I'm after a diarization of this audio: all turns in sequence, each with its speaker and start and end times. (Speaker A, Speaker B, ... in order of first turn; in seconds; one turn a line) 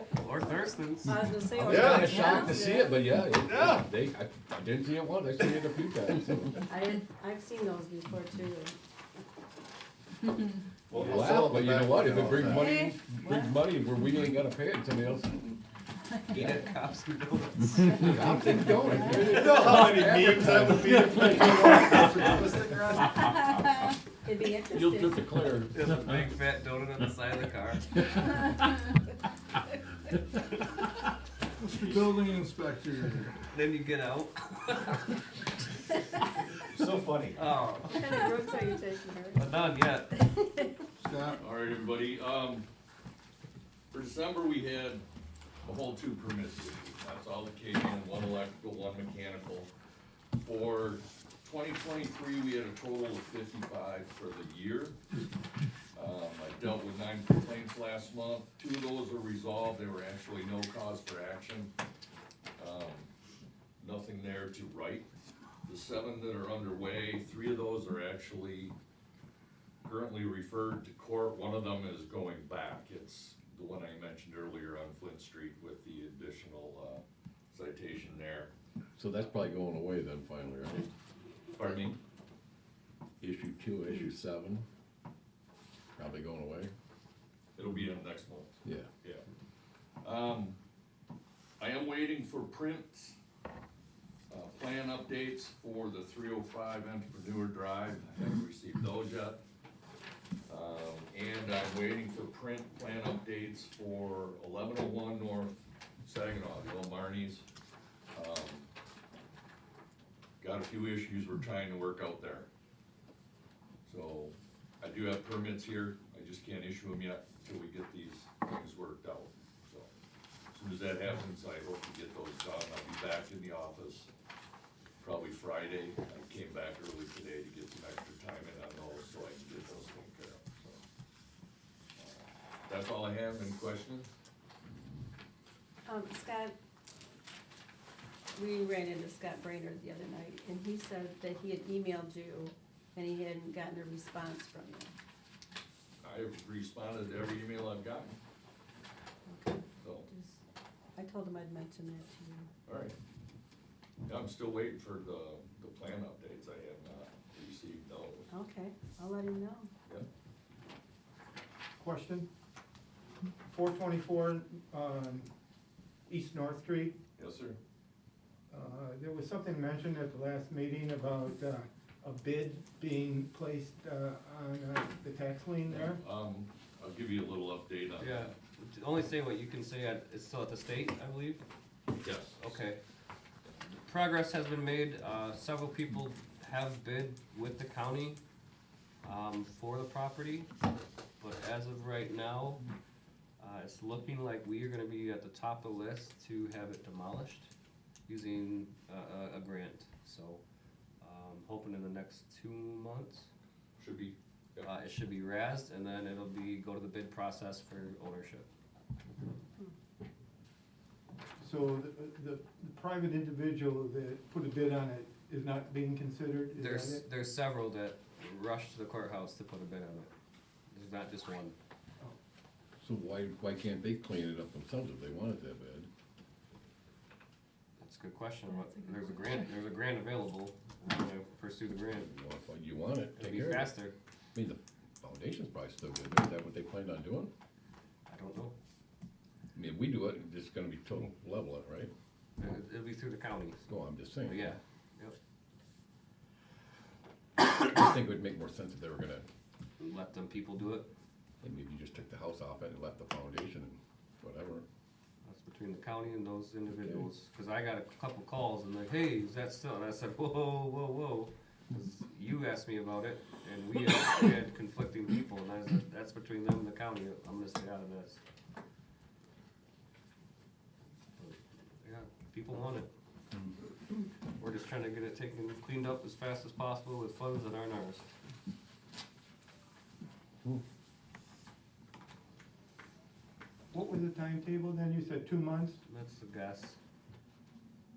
Speaker A: 0.1-1.2
Speaker B: 1.1-3.0
Speaker C: 1.3-6.7
Speaker D: 1.6-2.2
Speaker D: 3.4-3.9
Speaker B: 6.7-8.8
Speaker D: 10.9-12.8
Speaker C: 10.9-15.6
Speaker B: 12.7-13.5
Speaker A: 16.3-18.4
Speaker C: 16.3-16.7
Speaker C: 17.9-22.4
Speaker D: 19.1-23.3
Speaker B: 23.1-23.6
Speaker B: 24.2-25.3
Speaker C: 24.7-26.1
Speaker A: 25.7-27.9
Speaker E: 31.6-33.3
Speaker A: 33.5-35.2
Speaker D: 36.7-37.4
Speaker A: 37.3-38.2
Speaker B: 37.9-39.4
Speaker A: 39.3-40.3
Speaker B: 40.2-40.7
Speaker E: 41.0-41.4
Speaker F: 41.4-42.7
Speaker F: 43.9-45.0
Speaker F: 45.6-49.7
Speaker F: 50.4-55.2
Speaker F: 55.9-61.7
Speaker F: 62.6-63.1
Speaker F: 63.8-65.1
Speaker F: 65.6-68.7
Speaker F: 69.8-78.5
Speaker C: 79.0-80.9
Speaker F: 81.5-82.0
Speaker C: 83.2-84.7
Speaker C: 85.9-86.7
Speaker F: 87.5-89.2
Speaker F: 90.0-90.6
Speaker F: 91.6-93.2
Speaker F: 94.3-99.4
Speaker F: 100.5-107.4
Speaker F: 108.1-108.7
Speaker F: 110.4-112.5
Speaker F: 113.8-119.9
Speaker F: 120.5-124.1
Speaker F: 125.0-130.8
Speaker F: 132.0-134.1
Speaker B: 135.8-136.5
Speaker B: 138.3-144.9
Speaker F: 146.0-148.2
Speaker B: 149.2-150.4
Speaker F: 149.8-150.1
Speaker B: 150.9-152.5
Speaker F: 152.7-152.9
Speaker F: 154.0-158.3
Speaker B: 158.3-159.7
Speaker G: 161.8-162.3
Speaker G: 163.4-165.3
Speaker G: 166.1-166.9
Speaker F: 167.2-167.6
Speaker G: 168.5-176.0
Speaker F: 175.7-178.3
Speaker A: 178.0-181.4
Speaker F: 182.0-182.4
Speaker A: 182.4-182.8
Speaker A: 183.8-188.2
Speaker A: 189.0-190.5
Speaker A: 191.2-192.6
Speaker A: 193.4-197.5
Speaker A: 198.1-200.4
Speaker A: 201.0-203.3
Speaker F: 203.8-204.7
Speaker A: 204.6-208.5
Speaker G: 211.4-217.0
Speaker A: 216.5-220.1
Speaker A: 220.7-221.5
Speaker C: 222.8-225.9
Speaker A: 227.8-232.1
Speaker C: 232.0-233.8
Speaker A: 233.2-233.9
Speaker C: 234.3-237.3
Speaker A: 238.1-238.5
Speaker C: 239.5-241.9
Speaker A: 242.4-243.7
Speaker C: 243.7-244.5
Speaker A: 244.2-245.2
Speaker C: 247.4-249.3
Speaker A: 249.8-250.9
Speaker C: 251.4-254.6
Speaker A: 255.2-268.2
Speaker C: 256.7-257.0
Speaker A: 271.2-272.9
Speaker A: 274.4-278.1
Speaker G: 283.7-285.8
Speaker A: 285.9-286.8